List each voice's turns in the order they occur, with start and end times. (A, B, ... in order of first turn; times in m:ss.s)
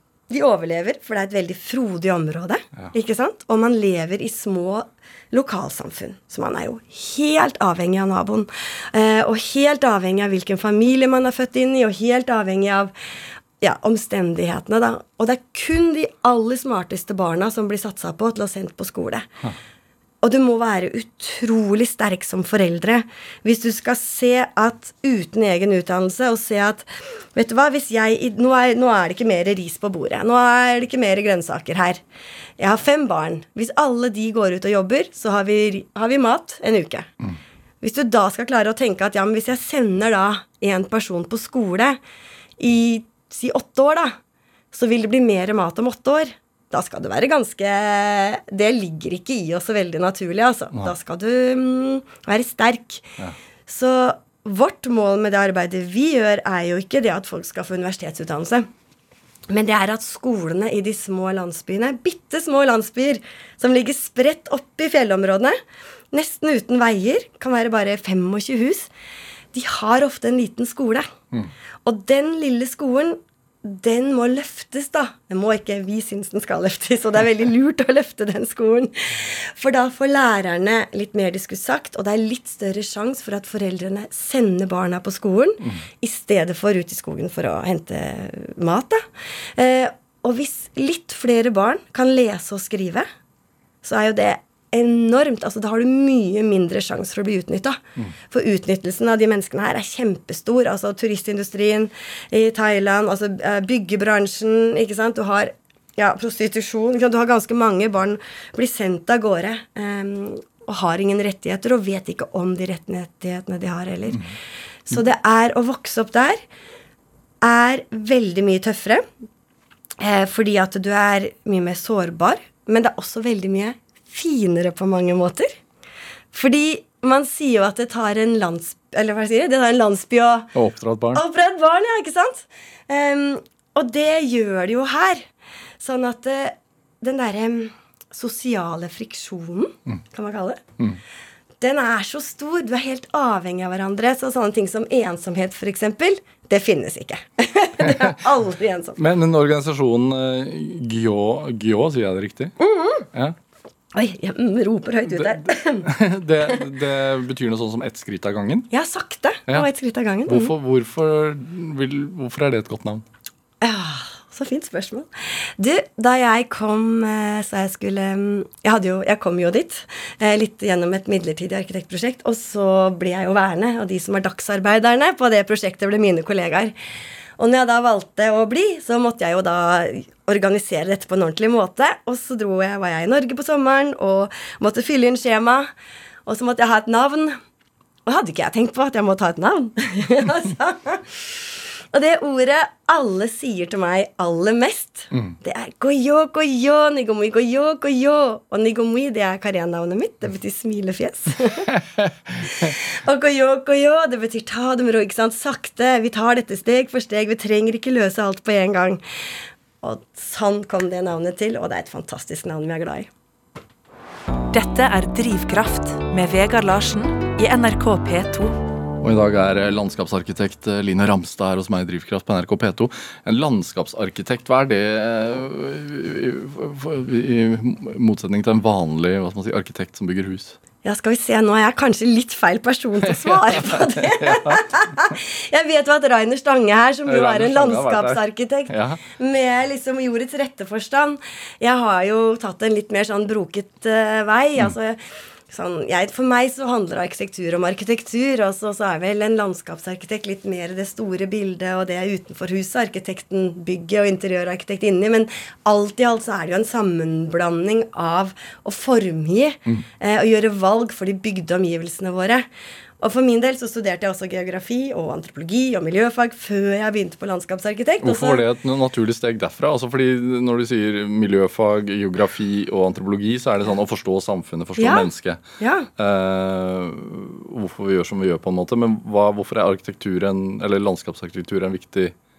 0:00.3-0:12.9 A
0:13.6-0:19.3 A
0:20.2-0:32.0 A
0:32.6-0:37.1 A
0:37.8-0:42.0 A
0:42.6-0:44.2 A
0:44.7-0:53.1 A
0:53.7-0:58.7 A
0:59.5-1:05.6 A
1:06.1-1:08.9 A
1:09.5-1:11.1 A
1:11.8-1:29.0 A
1:29.6-1:33.1 A
1:33.8-1:54.2 A
1:54.9-1:56.4 A
1:57.4-1:59.0 A
2:00.0-2:05.5 A
2:06.3-2:10.5 A
2:10.6-2:11.2 B
2:11.1-2:15.3 A
2:15.8-2:20.6 A
2:21.6-2:29.0 A
2:29.0-2:32.6 B
2:32.6-2:33.1 A
2:33.9-2:35.9 A
2:35.8-2:38.7 B
2:38.7-2:40.5 A
2:40.3-2:43.0 B
2:43.6-2:56.7 A
2:57.4-3:05.7 A
3:06.3-3:07.4 A
3:08.1-3:21.7 A
3:22.4-3:29.0 A
3:29.8-3:33.1 A
3:34.5-3:38.6 C
3:39.0-3:50.6 B
3:50.8-4:22.5 A
3:53.1-3:54.6 B
3:57.1-3:59.0 B
4:23.0-4:28.4 A
4:28.0-4:35.4 B
4:34.8-4:35.9 A
4:36.0-4:42.2 B